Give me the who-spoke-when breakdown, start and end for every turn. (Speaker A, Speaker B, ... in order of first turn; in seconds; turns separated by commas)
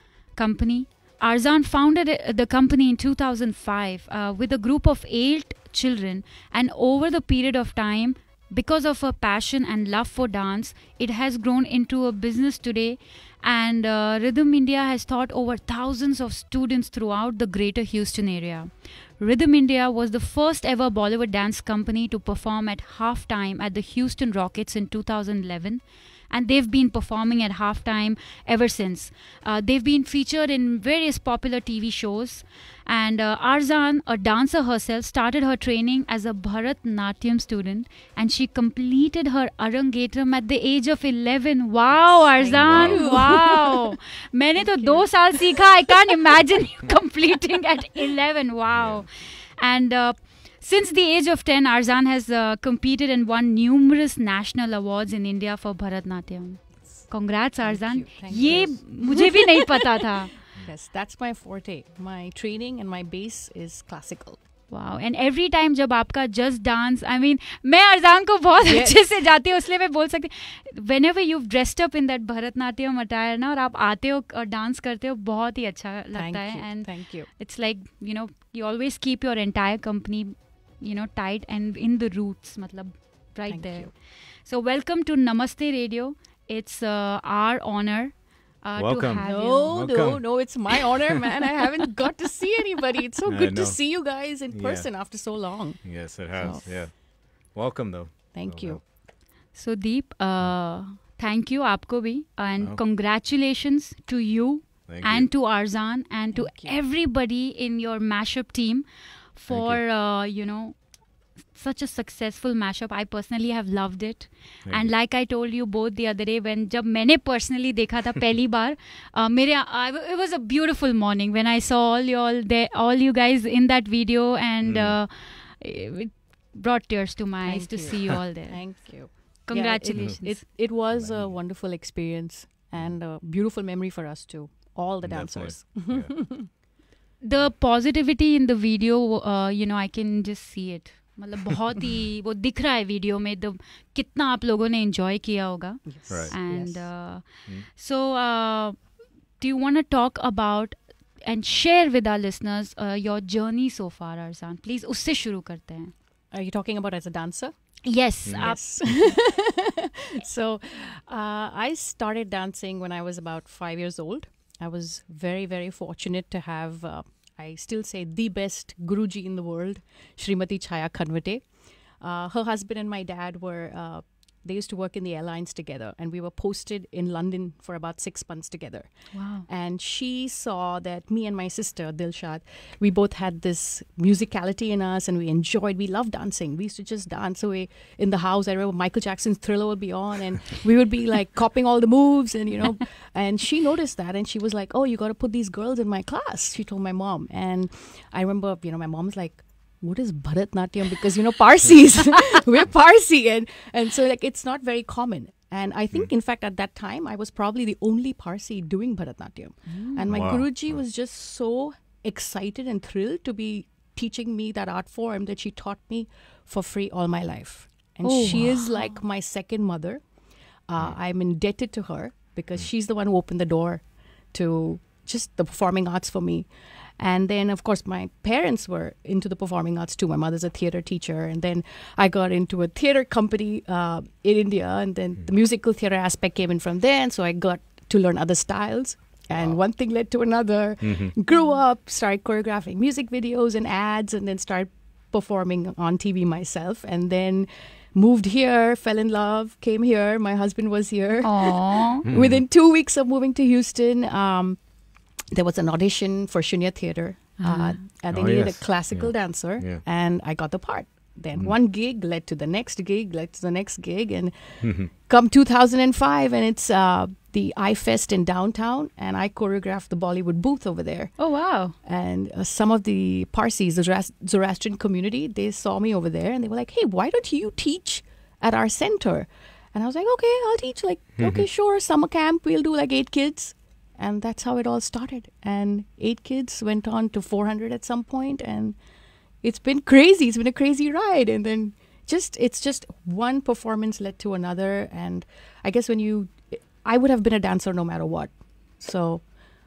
Speaker A: 0.4-60.3, Speaker B: 42.0-43.9, Speaker C: 42.5-43.2, Speaker B: 44.6-45.6, Speaker C: 48.7-49.1, Speaker B: 57.6-60.1, Speaker C: 58.3-58.8, Speaker B: 60.6-64.4, Speaker A: 64.7-83.9, Speaker B: 68.6-69.1, Speaker B: 76.1-77.3, Speaker B: 83.5-83.9, Speaker A: 84.5-89.7, Speaker C: 88.8-90.2, Speaker B: 89.2-96.8, Speaker C: 93.2-93.8, Speaker C: 94.5-94.9, Speaker C: 95.8-96.9, Speaker C: 97.5-98.8, Speaker B: 98.3-98.8, Speaker A: 99.5-108.8, Speaker C: 104.9-105.3, Speaker B: 106.3-106.8, Speaker A: 109.4-110.8, Speaker C: 109.5-109.8, Speaker A: 111.5-128.6, Speaker C: 114.7-114.9, Speaker C: 124.6-125.0, Speaker B: 127.5-136.5, Speaker A: 129.5-130.4, Speaker C: 130.9-131.4, Speaker C: 135.0-136.1, Speaker A: 137.2-148.8, Speaker B: 145.9-146.8, Speaker A: 149.4-155.9, Speaker B: 156.3-157.5, Speaker A: 157.8-158.6, Speaker C: 158.2-158.5, Speaker B: 158.3-171.5, Speaker B: 172.0-178.9, Speaker A: 179.1-179.5, Speaker B: 179.5-220.1, Speaker A: 209.7-210.1, Speaker C: 210.1-210.8, Speaker A: 218.0-219.0, Speaker B: 220.7-254.6, Speaker C: 239.3-239.6, Speaker C: 240.8-241.2, Speaker A: 251.2-252.1, Speaker C: 252.1-252.4, Speaker B: 255.3-271.1, Speaker A: 257.4-257.8, Speaker C: 258.1-259.8, Speaker C: 264.6-264.9, Speaker A: 271.2-271.8, Speaker B: 271.8-288.8, Speaker C: 281.2-281.5, Speaker B: 289.4-299.3